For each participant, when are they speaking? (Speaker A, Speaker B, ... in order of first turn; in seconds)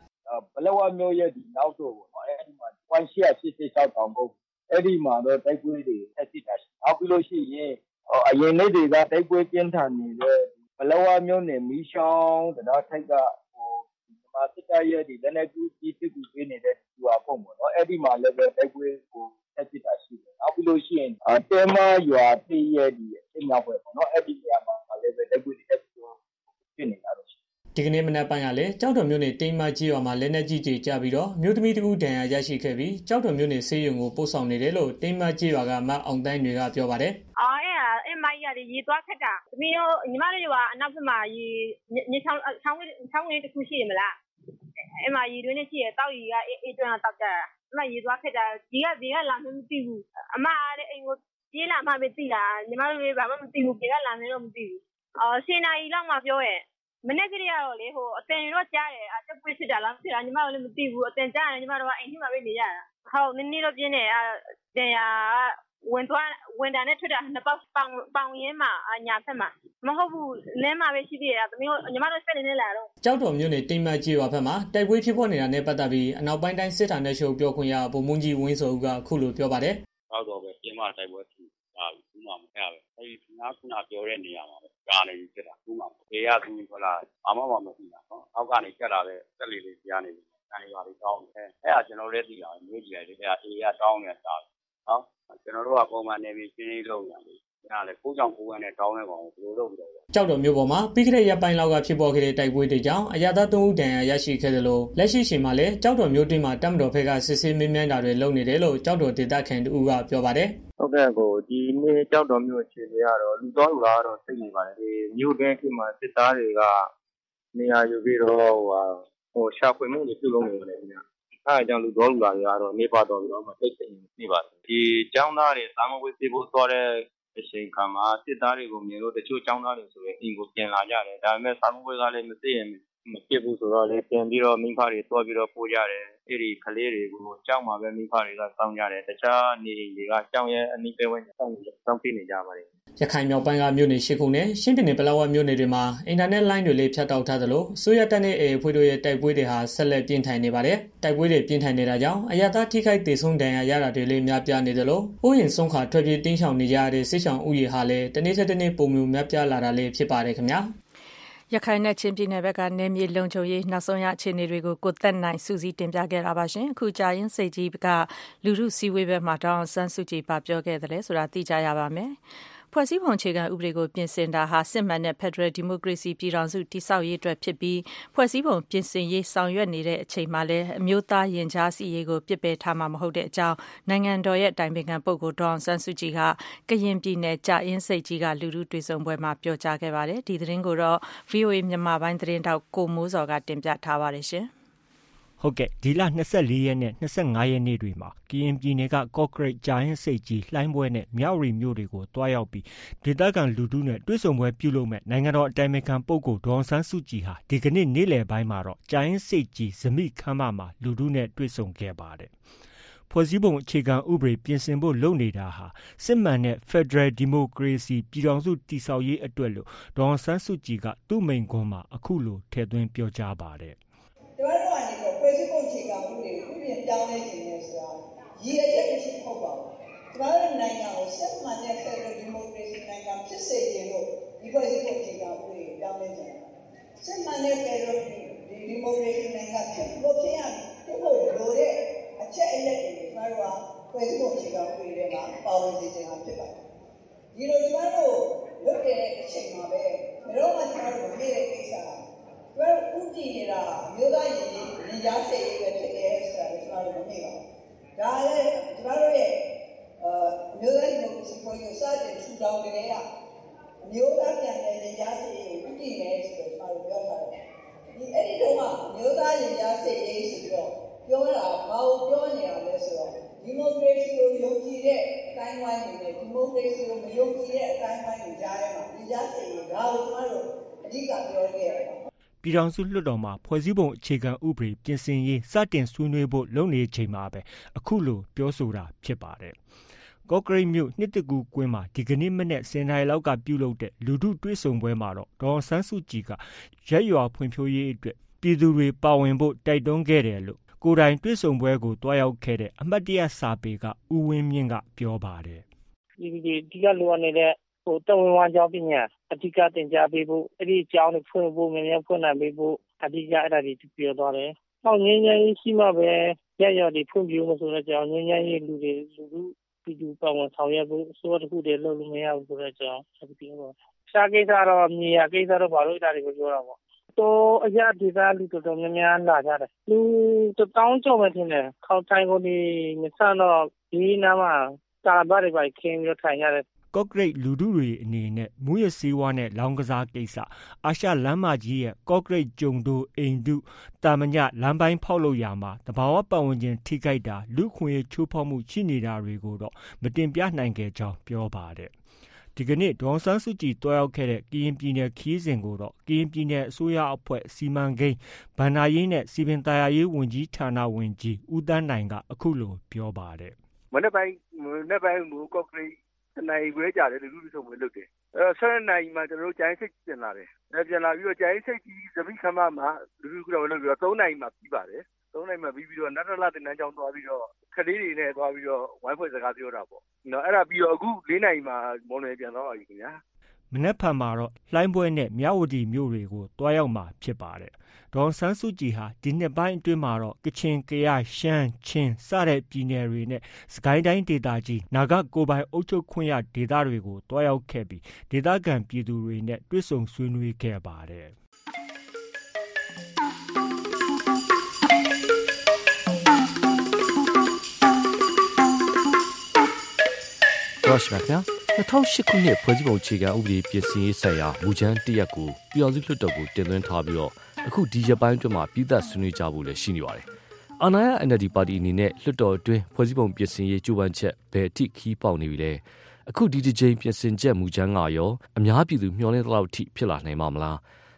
Speaker A: 0.3-26.2, 26.7-27.3
Speaker B: 27.8-37.2, 73.0-79.8, 100.1-110.5, 143.0-160.7
Speaker C: 37.4-44.2, 44.8-72.9
Speaker D: 80.1-100.0
Speaker E: 110.8-116.9, 117.5-142.7
Speaker F: 161.5-172.2, 172.7-194.5
Speaker G: 195.4-212.3, 213.1-223.8, 282.4-289.6, 290.3-305.6, 336.9-351.9, 352.6-363.6, 383.7-401.4
Speaker H: 224.4-236.5, 237.0-246.6, 247.3-252.0, 252.6-257.4, 258.0-259.4, 260.0-263.0, 263.8-267.4, 267.9-282.0
Speaker I: 306.2-336.6
Speaker J: 363.9-383.2
Speaker K: 410.8-420.3, 420.8-430.8